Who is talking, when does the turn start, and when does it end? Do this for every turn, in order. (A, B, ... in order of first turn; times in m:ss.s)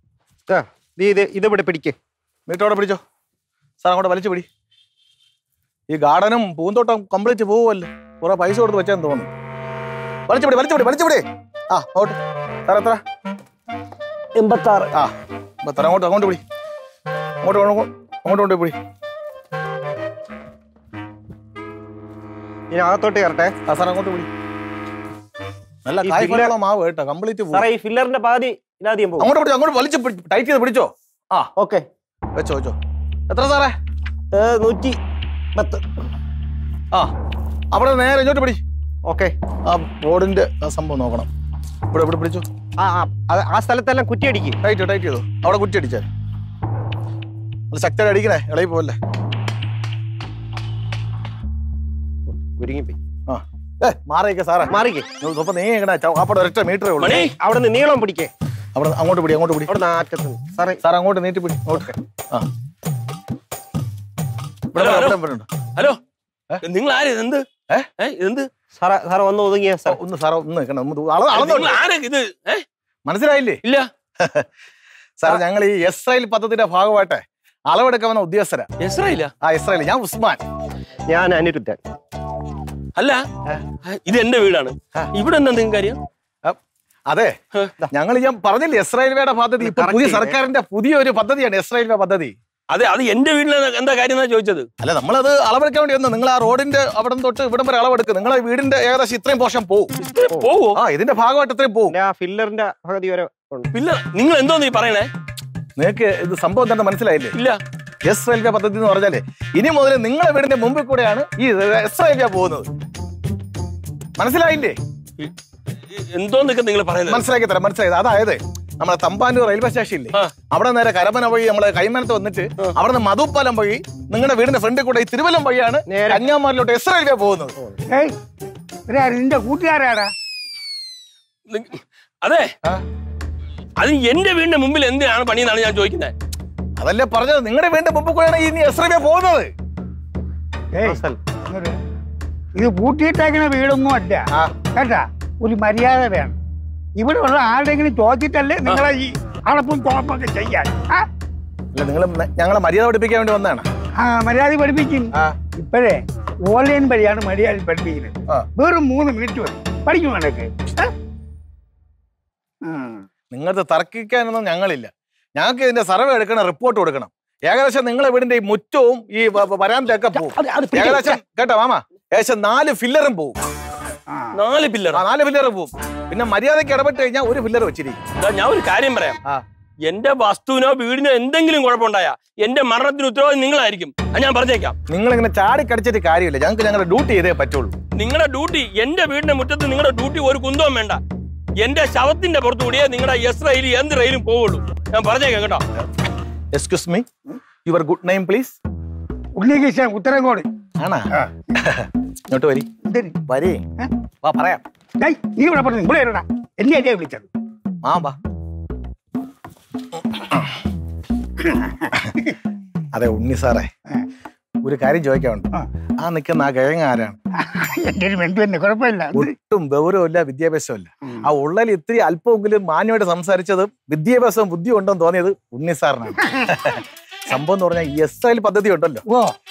0:00.5-0:02.0 A
0:02.5-0:03.0 B
0:03.8-0:04.4 B
0:05.9-0:09.3 B
0:10.3-0:13.0 B
0:14.4-0:14.9 A
0:15.6-0:16.4 B
0:17.4-0:18.8 B
0:22.7-0:23.5 A
0:23.7-0:24.3 B
0:25.8-0:27.7 B
0:26.0-0:26.6 A
0:27.5-0:29.3 A
0:29.2-0:31.5 B
0:31.6-0:31.8 A
0:32.3-0:32.8 B
0:33.3-0:33.7 B
0:34.3-0:35.0 A
0:35.6-0:35.9 A
0:37.7-0:38.6 B
0:39.0-0:39.3 A
0:39.6-0:41.3 B
0:41.9-0:42.4 B
0:42.8-0:44.6 A
0:44.6-0:46.1 B
0:47.7-0:49.0 B
0:52.3-0:53.0 A
0:53.3-0:57.3 B
0:54.7-0:55.1 A
0:57.0-0:57.3 C
0:57.4-0:58.3 A
0:58.7-0:59.7 B
0:59.7-1:00.8 A
1:00.8-1:02.5 B
1:01.7-1:02.0 A
1:04.7-1:05.5 B
1:04.7-1:05.2 C
1:06.6-1:07.4 C
1:08.0-1:08.5 C
1:08.7-1:10.0 A
1:09.8-1:11.8 B
1:11.3-1:12.6 C
1:13.0-1:13.6 B
1:14.2-1:14.5 B
1:15.2-1:18.7 B
1:18.8-1:19.3 C
1:19.4-1:20.4 B
1:21.1-1:21.8 A
1:23.0-1:23.2 C
1:23.8-1:26.0 C
1:27.1-1:27.3 B
1:27.9-1:32.3 B
1:29.6-1:30.4 A
1:32.7-1:34.7 C
1:34.8-1:39.9 B
1:40.0-1:40.8 C
1:40.7-1:42.0 B
1:41.9-1:43.7 A
1:43.7-1:45.1 C
1:45.8-1:47.4 B
1:48.0-1:52.7 B
1:54.2-1:54.8 B
1:55.9-1:57.3 C
1:57.1-2:07.5 B
2:05.9-2:06.3 A
2:08.9-2:10.1 D
2:11.5-2:12.5 C
2:13.8-2:16.1 C
2:16.8-2:19.5 B
2:20.7-2:21.7 D
2:20.8-2:21.2 A
2:22.6-2:26.4 D
2:27.0-2:31.0 D
2:31.7-2:33.6 B
2:34.0-2:40.9 D
2:42.6-2:43.0 D
2:43.3-2:53.4 B
2:50.2-2:51.1 A
2:54.3-2:55.0 C
2:54.9-2:58.0 B
2:58.2-2:59.2 C
2:59.8-3:04.8 C
3:04.9-3:07.8 B
3:07.9-3:11.0 C
3:11.6-3:15.6 C
3:16.5-3:17.1 B
3:17.6-3:18.6 B
3:19.3-3:20.5 D
3:20.8-3:22.7 B
3:22.9-3:23.2 D
3:23.3-3:23.6 B
3:24.2-3:24.6 B
3:25.0-3:27.3 D
3:27.8-3:28.2 B
3:29.9-3:30.5 B
3:31.4-3:31.9 D
3:32.9-3:33.7 B
3:34.6-3:35.5 B
3:36.0-3:37.2 B
3:37.4-3:39.3 D
3:39.1-3:49.0 B